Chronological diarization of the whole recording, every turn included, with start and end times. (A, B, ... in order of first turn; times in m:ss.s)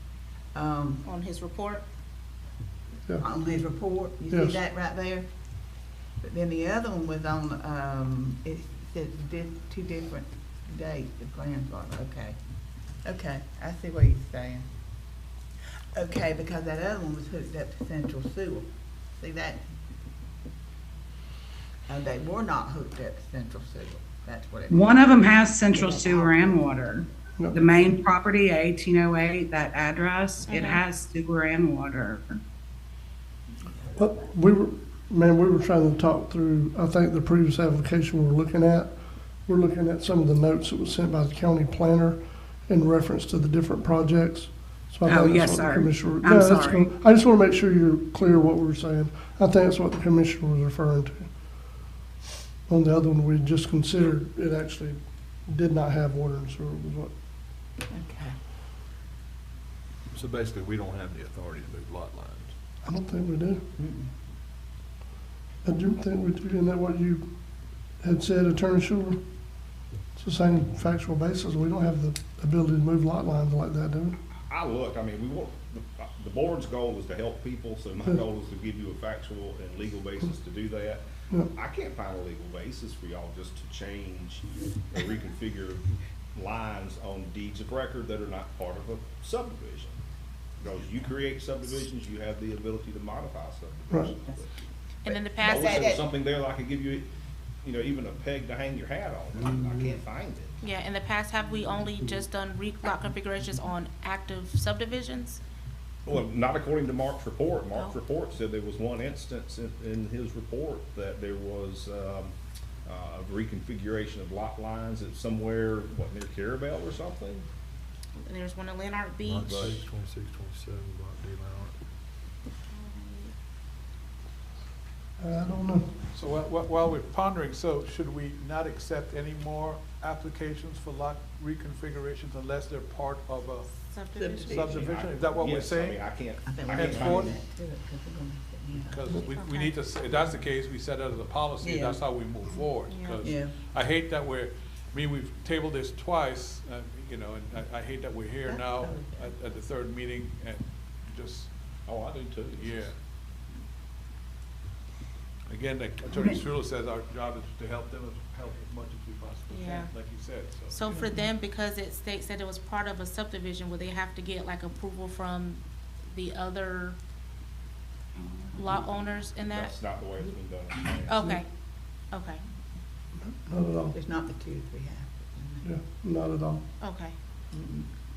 0:00.5-0:01.0 A
0:01.0-0:01.8 B
0:03.2-0:05.3 A
0:04.3-0:04.6 C
0:06.2-0:12.4 A
0:13.0-0:14.7 A
0:15.9-0:19.6 A
0:21.9-0:26.8 A
0:24.7-0:32.4 D
0:30.4-0:30.8 B
0:33.9-0:51.3 C
0:45.0-0:46.9 D
0:52.7-0:57.1 C
0:57.9-0:58.4 A
1:00.1-1:02.5 E
1:02.8-1:03.6 C
1:03.8-1:04.1 A
1:05.6-1:07.2 C
1:08.0-1:09.2 C
1:10.1-1:14.2 C
1:14.4-1:30.0 F
1:30.6-1:34.5 F
1:35.0-1:36.0 B
1:35.0-1:37.1 F
1:35.4-1:36.0 A
1:37.6-1:40.6 F
1:40.6-1:45.4 B
1:46.0-1:52.3 F
1:52.8-1:57.4 F
1:58.2-1:59.7 B
1:59.2-2:01.8 E
1:59.4-1:59.8 F
2:02.7-2:03.3 B
2:05.2-2:05.9 C
2:06.1-2:13.7 G
2:13.7-2:14.6 B
2:14.2-2:14.9 A
2:14.5-2:17.4 G
2:14.5-2:17.3 F
2:16.4-2:19.1 A
2:18.8-2:31.5 G
2:19.3-2:19.8 B
2:21.6-2:22.0 A
2:22.9-2:23.2 B
2:23.2-2:23.5 A
2:28.4-2:29.3 A
2:31.8-2:32.9 F
2:32.6-2:32.9 G
2:35.5-2:40.9 G
2:39.5-2:39.9 B
2:40.7-2:47.0 B
2:48.5-2:49.7 B
2:49.5-2:51.4 F
2:51.1-2:51.4 B
2:52.1-2:52.4 B
2:53.2-2:54.0 C
2:53.9-2:55.7 A
2:55.6-2:56.6 C
2:56.8-2:57.1 B
2:57.5-2:57.9 A